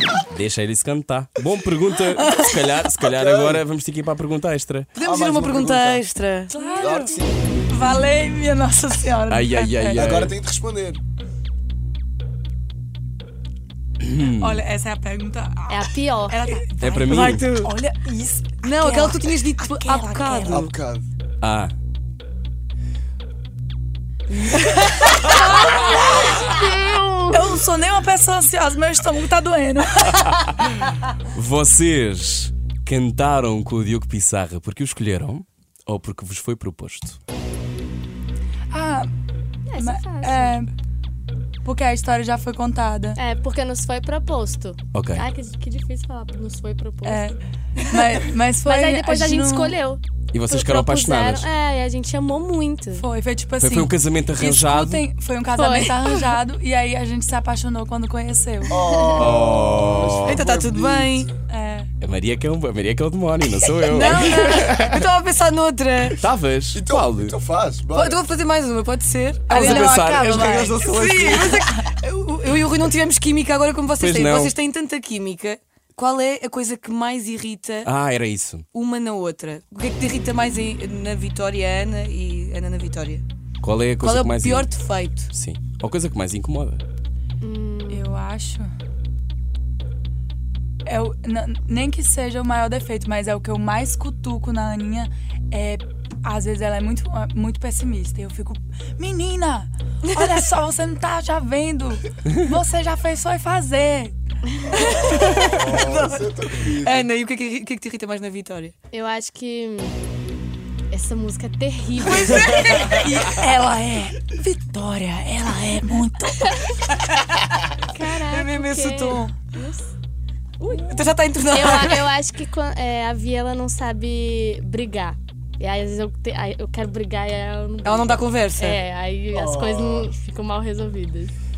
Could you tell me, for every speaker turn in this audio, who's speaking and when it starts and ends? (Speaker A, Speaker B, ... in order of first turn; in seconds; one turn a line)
Speaker A: 0.3-4.9
Speaker B: 2.2-2.6
Speaker C: 3.0-3.6
Speaker D: 5.0-6.5
Speaker C: 5.0-6.0
Speaker B: 6.5-7.2
Speaker C: 6.7-7.6
Speaker B: 7.7-10.0
Speaker A: 9.3-10.3
Speaker C: 9.9-11.0
Speaker A: 14.0-14.6
Speaker B: 14.4-20.6
Speaker E: 15.7-16.4
Speaker A: 16.8-17.5
Speaker D: 17.1-17.7
Speaker D: 18.6-20.7
Speaker C: 20.5-21.1
Speaker A: 21.4-21.7
Speaker D: 24.3-25.9
Speaker E: 25.6-27.6
Speaker B: 25.6-26.1
Speaker B: 27.3-30.4
Speaker A: 31.3-37.2
Speaker B: 38.7-39.1
Speaker E: 39.7-40.6
Speaker B: 39.8-40.7
Speaker B: 41.6-43.2
Speaker E: 43.2-47.3
Speaker A: 44.9-45.2
Speaker B: 47.0-49.8
Speaker E: 48.6-53.1
Speaker A: 50.3-51.5
Speaker B: 53.0-58.8
Speaker A: 53.6-55.0
Speaker E: 55.5-56.3
Speaker C: 58.7-61.4
Speaker E: 58.8-59.3
Speaker A: 59.2-60.4
Speaker D: 60.2-61.3
Speaker B: 61.5-61.9
Speaker A: 62.0-65.0
Speaker D: 63.8-66.2
Speaker A: 66.2-67.4
Speaker C: 66.7-68.2
Speaker D: 67.9-70.1
Speaker B: 69.5-71.8
Speaker A: 69.5-71.5
Speaker D: 70.7-77.9
Speaker A: 74.0-74.5
Speaker A: 77.8-78.7
Speaker D: 78.7-83.2
Speaker A: 83.6-84.7
Speaker D: 84.0-85.3
Speaker A: 85.3-86.8
Speaker E: 87.4-88.1
Speaker B: 87.9-88.7
Speaker B: 90.8-104.2
Speaker C: 104.7-107.1
Speaker D: 104.9-108.8
Speaker E: 108.9-110.0
Speaker E: 110.9-113.3
Speaker D: 112.0-113.4
Speaker B: 112.7-116.5
Speaker E: 117.8-119.9
Speaker D: 118.0-119.3
Speaker E: 120.6-131.3
Speaker D: 120.9-122.2
Speaker D: 127.8-128.8
Speaker C: 129.3-130.1